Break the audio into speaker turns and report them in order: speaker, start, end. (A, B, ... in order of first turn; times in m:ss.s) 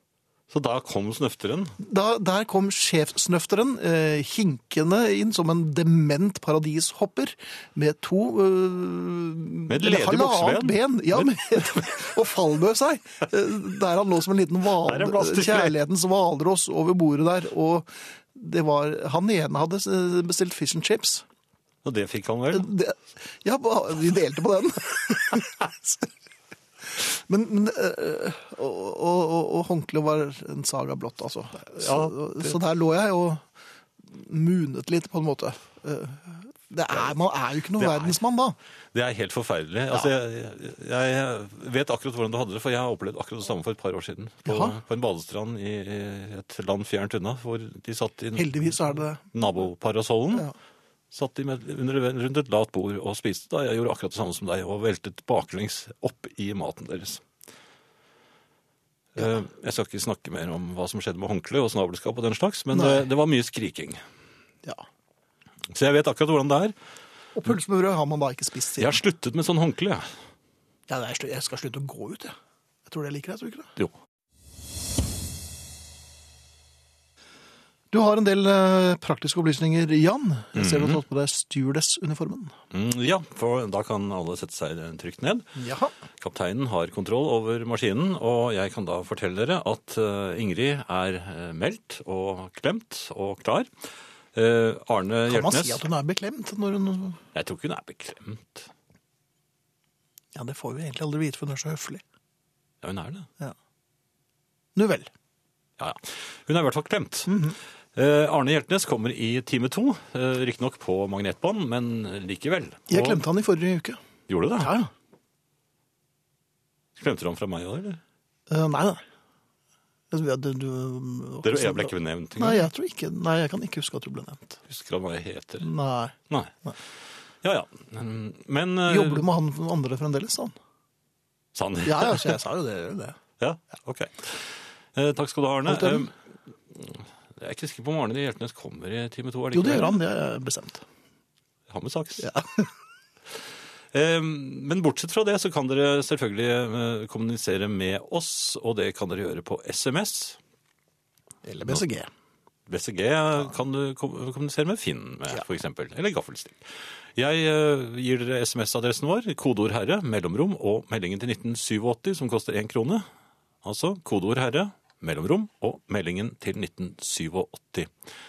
0:00.5-0:01.8 A
0:01.8-0:21.2 B
0:09.7-0:12.1 A
0:14.8-0:15.8 A
0:21.8-0:22.7 A
0:22.5-0:26.1 B
0:26.9-0:33.5 B
0:31.7-0:32.6 A
0:34.0-0:38.6 B
0:37.8-0:38.2 A
0:38.9-0:50.5 A
0:44.4-0:44.8 B
0:48.4-0:49.2 B
0:51.1-0:57.2 A
0:59.1-1:04.0 A
1:02.7-1:03.1 B
1:05.7-1:06.7 A
1:07.4-1:09.0 B
1:08.8-1:10.1 A
1:10.9-1:12.4 B
1:12.9-1:13.7 B
1:17.9-1:22.6 B
1:20.6-1:21.0 A
1:22.7-1:25.6 A
1:25.6-1:25.9 B
1:26.2-1:33.7 A
1:34.4-1:35.8 A
1:35.3-1:37.2 B
1:37.3-1:38.7 A
1:40.4-1:42.0 B
1:42.8-1:43.3 A
1:44.8-1:45.1 B
1:45.8-1:47.4 A
1:47.3-1:47.6 B
1:48.0-1:53.2 A
1:52.9-1:54.0 B
1:54.3-1:54.7 A
1:54.6-1:54.9 B
1:57.0-1:58.0 A
1:58.5-1:59.0 B
2:00.1-2:04.6 B
2:01.4-2:02.7 A
2:04.7-2:05.7 A
2:05.6-2:06.8 B
2:07.4-2:09.2 A
2:08.9-2:10.5 B
2:11.5-2:12.4 A
2:11.8-2:13.2 B
2:13.4-2:16.1 A
2:15.7-2:16.1 B
2:16.7-2:20.0 A
2:19.5-2:20.8 B
2:21.7-2:22.4 A
2:22.2-2:22.6 B
2:23.9-2:30.4 A
2:31.4-2:32.1 B
2:32.7-2:43.0 A
2:43.6-2:47.9 A